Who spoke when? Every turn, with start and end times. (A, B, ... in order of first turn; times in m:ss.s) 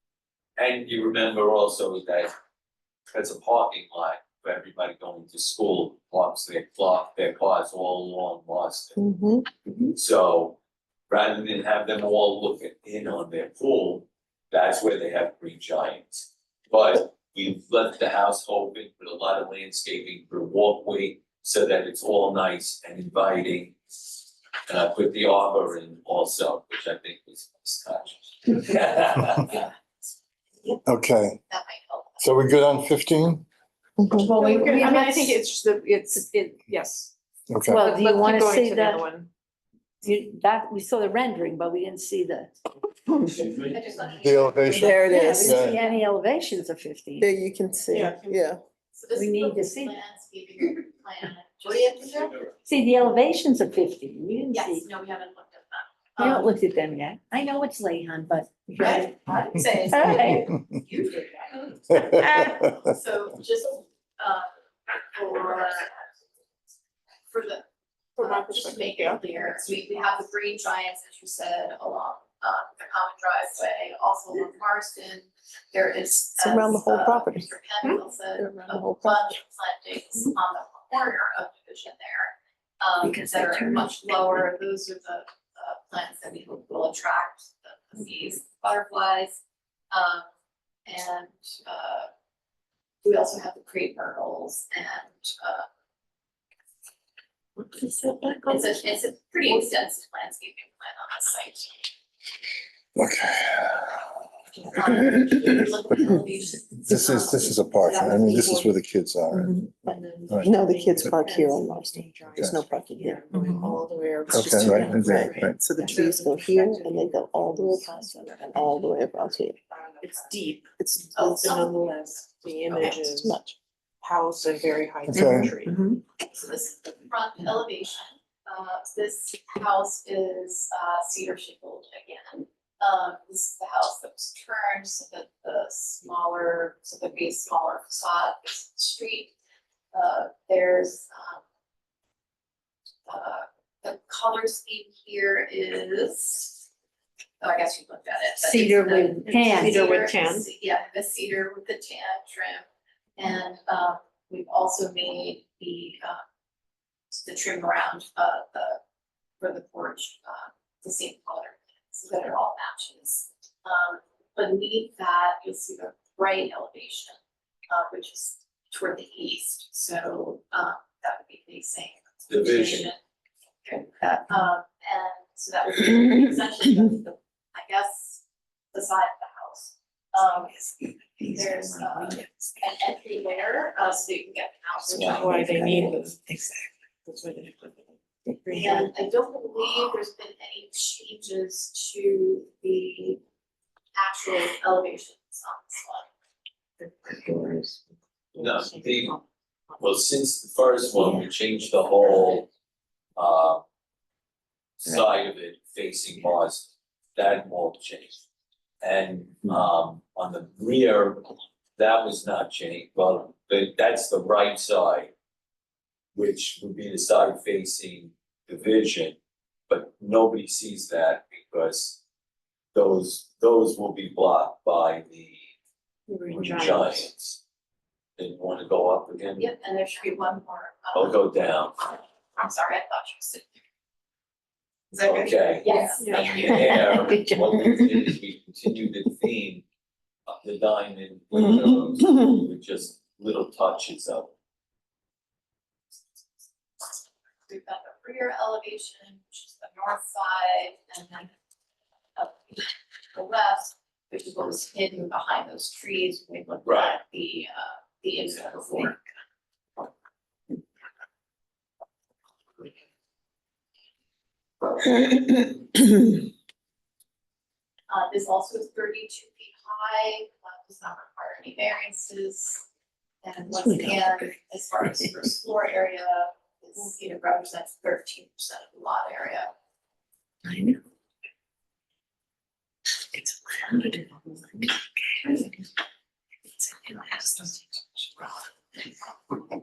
0:00.6-0:02.3 A
0:03.1-0:09.0 A
0:09.0-0:09.5 B
0:09.9-0:10.6 A
0:11.1-0:23.8 A
0:24.7-0:29.7 A
0:30.9-0:31.4 C
0:31.5-0:32.2 D
0:32.2-0:33.4 C
0:34.0-0:34.6 B
0:34.2-0:37.1 E
0:34.3-0:35.3 D
0:34.6-0:35.4 F
0:37.5-0:37.8 C
0:37.7-0:39.1 F
0:37.7-0:39.3 E
0:40.0-0:42.5 F
0:43.3-0:44.0 A
0:43.5-0:46.1 D
0:44.2-0:45.8 C
0:44.8-0:45.6 B
0:44.8-0:47.3 F
0:47.2-0:48.6 B
0:47.9-0:48.5 E
0:48.9-0:52.6 D
0:49.2-0:50.0 F
0:51.8-0:52.6 A
0:52.7-0:54.9 F
0:54.5-0:56.5 D
0:56.2-0:59.1 F
0:58.8-1:04.5 D
0:59.9-1:00.5 F
1:05.1-1:06.0 D
1:07.3-1:07.6 D
1:08.2-1:29.4 D
1:08.2-1:09.4 E
1:16.4-1:17.5 B
1:18.4-1:19.4 B
1:23.0-1:23.9 F
1:29.9-1:30.3 D
1:30.9-1:32.1 D
1:33.0-1:35.7 D
1:38.3-1:38.6 E
1:38.5-1:41.8 D
1:43.0-1:44.1 C
1:44.7-1:48.7 D
1:46.8-1:51.1 C
1:47.8-1:48.6 E
1:49.4-1:53.5 B
1:49.8-1:59.0 E
1:54.3-1:55.6 C
1:54.4-1:59.6 B
1:59.8-2:03.4 E
2:01.0-2:01.5 B
2:01.1-2:02.9 D
2:02.7-2:03.6 B
2:04.0-2:06.0 E
2:05.1-2:05.5 C
2:06.2-2:19.3 D
2:19.9-2:21.4 D
2:23.1-2:26.6 D
2:27.4-2:32.7 D
2:28.4-2:30.5 E
2:28.6-2:30.0 F
2:33.2-2:36.2 D
2:37.1-2:38.8 D
2:39.4-2:47.2 D
2:47.7-2:53.0 D
2:52.3-2:52.9 A
2:53.6-2:58.2 D
2:58.7-3:05.6 D
3:01.2-3:02.3 F
3:04.9-3:06.1 B
3:05.0-3:06.4 E
3:07.1-3:08.9 E
3:08.6-3:13.2 D
3:14.0-3:16.1 D
3:17.1-3:17.4 E
3:17.1-3:17.5 B
3:18.3-3:19.2 A
3:18.4-3:19.2 E
3:19.8-3:22.5 A
3:23.2-3:23.6 A
3:24.8-3:28.2 A
3:28.8-3:35.1 A
3:36.2-3:39.2 A
3:39.7-3:42.0 A
3:42.7-3:45.5 A
3:46.1-3:47.1 E
3:46.3-3:47.4 A
3:48.2-3:49.5 A
3:49.4-3:51.3 D
3:50.9-3:51.8 A
3:52.4-3:53.6 D
3:54.9-3:59.6 A
3:55.1-3:56.7 D
3:55.7-3:56.3 E
3:56.1-3:58.1 F
4:00.3-4:04.3 A
4:07.5-4:11.3 D
4:12.2-4:19.0 D
4:16.6-4:17.0 A
4:27.9-4:32.6 D
4:33.2-4:39.5 D
4:40.4-4:40.8 F
4:43.2-4:44.6 F